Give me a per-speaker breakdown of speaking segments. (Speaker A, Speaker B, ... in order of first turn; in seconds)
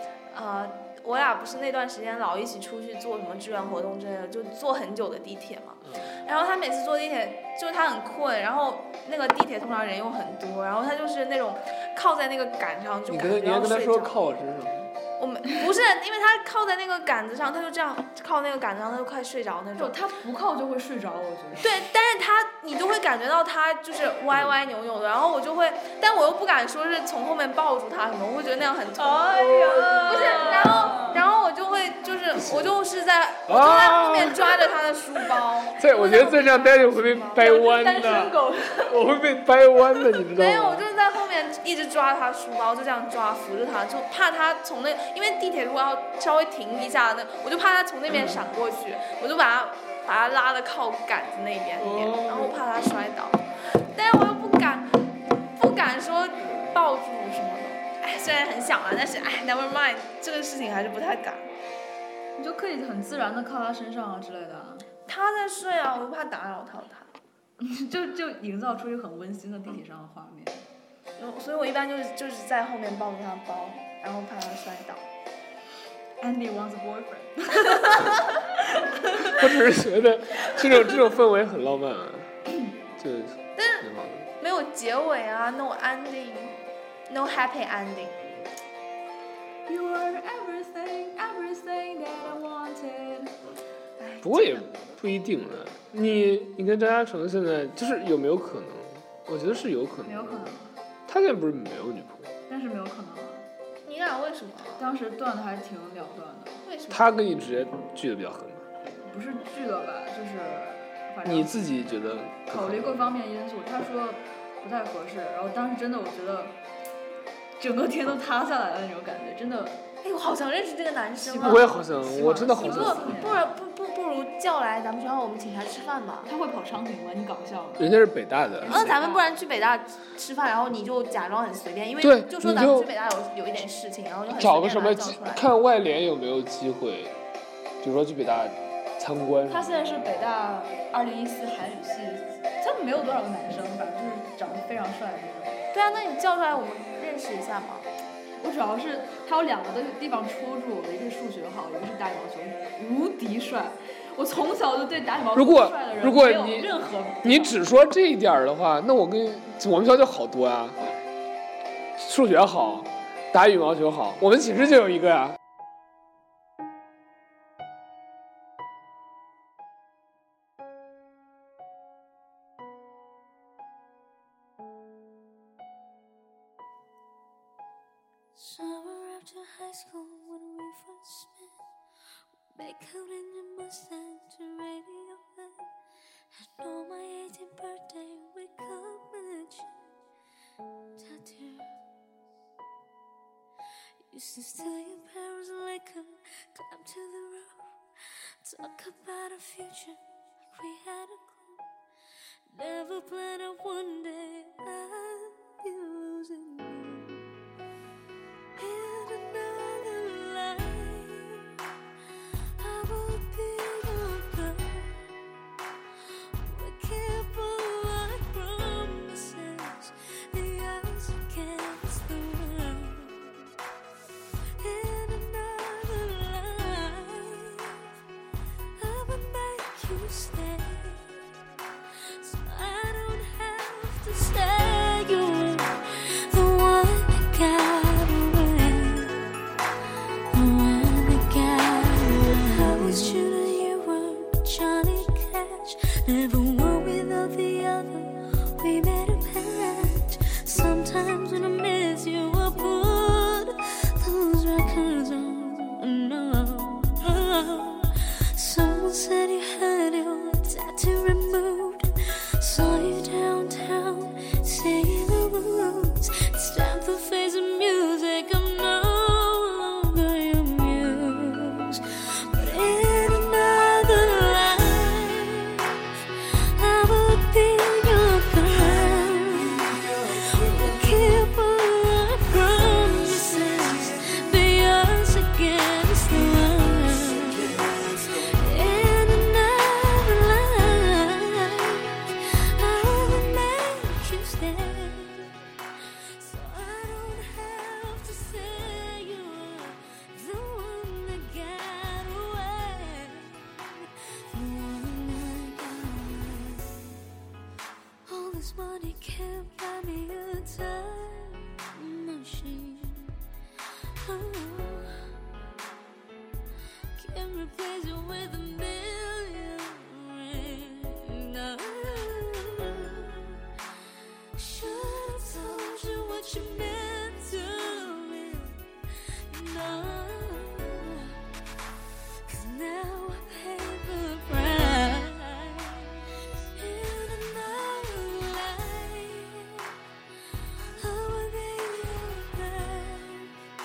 Speaker A: 0.3-14.2, 15.2-19.9, 21.6-37.4, 40.3-53.4, 53.9-54.9, 55.6-61.5, 65.1-67.1, 71.2-75.1, 83.6-83.8, 84.4-86.6, 87.1-88.2, 94.0-94.6, 103.9-104.8, 106.6-107.1, 120.0-121.6, 122.6-126.3, 128.7-135.4, 145.7-147.9
Speaker B: 5.8-6.1, 13.1-14.9, 32.4-32.7, 33.5-34.6, 35.8-40.8, 51.8-52.5, 79.3-82.3, 83.0-84.3, 94.2-100.4, 101.1-102.3, 106.9-108.6, 111.2-113.0, 121.4-123.2, 127.8-128.9, 132.0-132.9, 134.4-137.1, 137.8-139.8, 155.3-156.7, 157.2-160.8, 162.0-165.4
Speaker C: 19.8-21.9, 29.0-31.2, 37.4-38.9, 62.4-64.9, 67.6-70.6, 76.2-79.5, 89.7-93.3, 100.0-100.8, 102.5-103.5, 104.8-106.6, 109.1-111.6, 112.5-116.6, 117.6-119.8, 121.2-123.4, 126.2-127.9, 128.6-129.3, 139.5-145.6, 148.4-157.6
Speaker D: 178.3-181.6, 182.6-185.7, 186.3-189.7, 191.0-191.7, 194.0-200.0, 200.5-201.6, 202.5-207.2, 208.6-211.5, 212.6-214.9, 216.4-223.5, 224.6-227.9, 228.8-231.2, 232.2-239.3, 240.3-275.7, 276.4-295.3, 296.1-306.9, 308.1-313.1, 313.9-315.1, 316.9-323.4, 324.3-328.6, 329.2-331.2, 332.3-339.7, 340.8-343.3